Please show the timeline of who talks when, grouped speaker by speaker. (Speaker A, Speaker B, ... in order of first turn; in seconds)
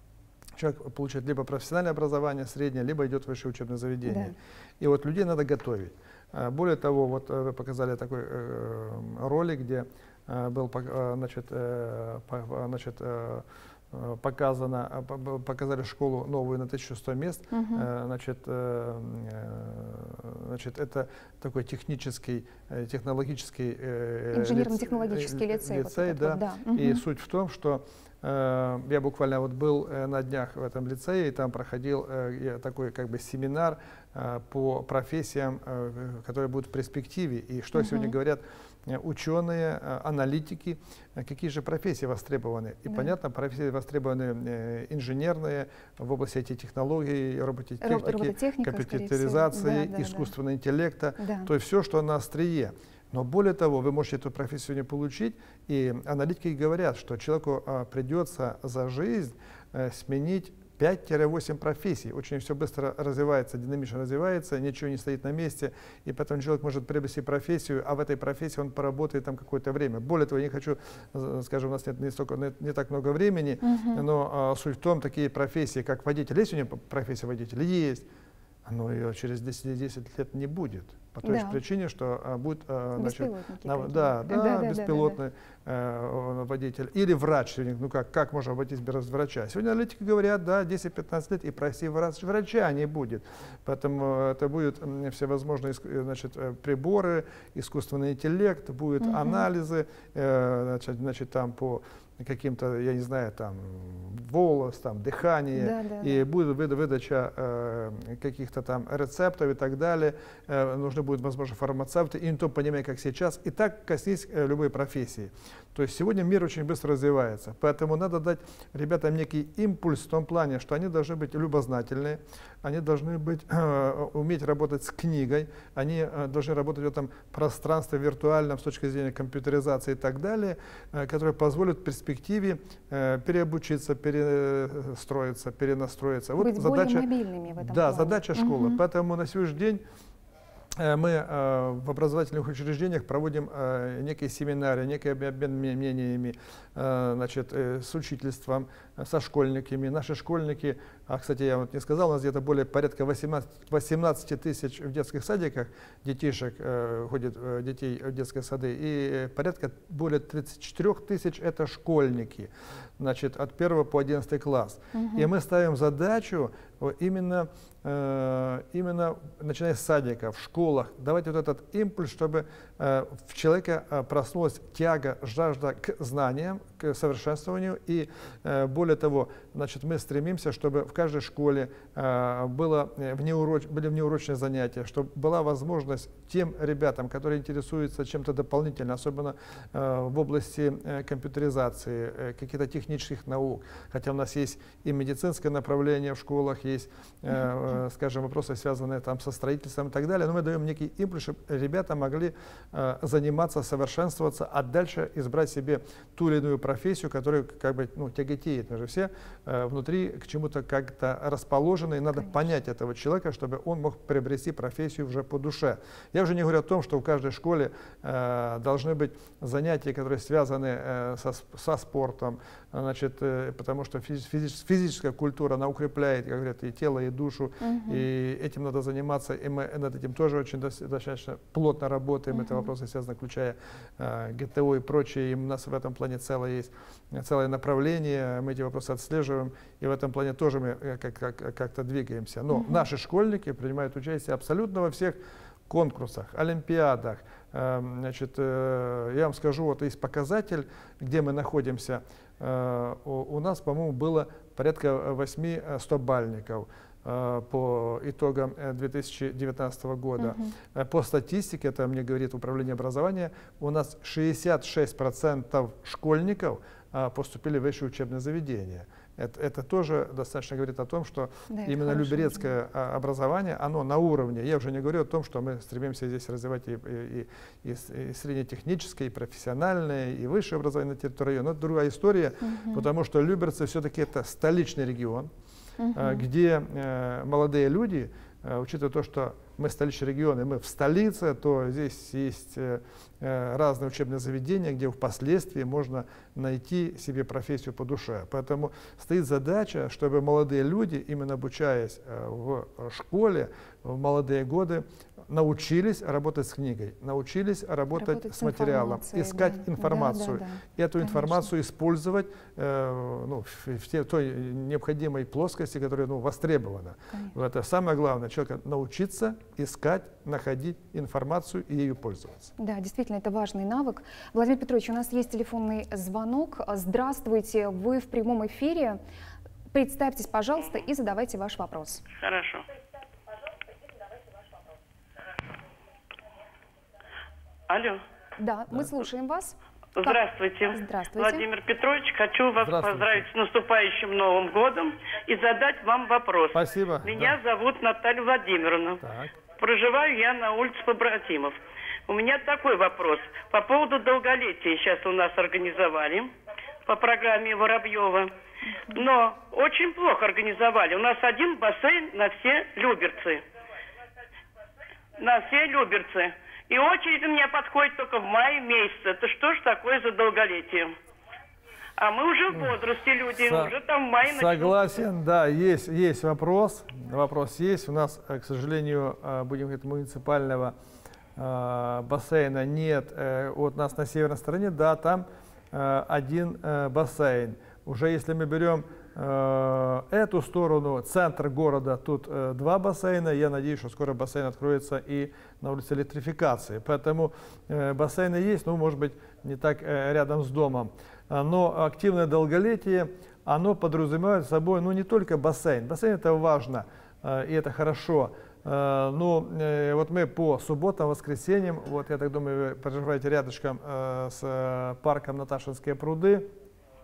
Speaker A: 0.6-78.1, 78.7-139.8, 140.8-285.3, 285.9-322.5, 342.6-343.3, 346.5-347.4, 349.0-349.3, 372.5-372.8, 373.4-380.7, 381.4-416.5
Speaker B: 4.1-4.3, 17.5-17.9, 24.3-27.0, 37.7-38.1, 47.8-50.3, 51.2-51.5, 73.6-74.0, 81.2-81.6, 83.0-85.2, 99.0-99.5, 105.5-106.2, 136.4-138.8, 164.9-165.3, 227.6-228.1, 232.3-232.7, 242.5-242.8, 260.2-260.5, 271.5-272.5, 282.4-282.9, 285.8-286.2, 307.9-311.5, 322.6-329.0, 329.7-332.0, 338.4-340.2, 340.7-341.4
Speaker C: 332.1-332.6, 337.7-338.0, 340.0-349.0, 349.6-351.6, 352.1-356.3, 356.9-358.3, 358.9-363.4, 365.2-370.9, 372.0-374.8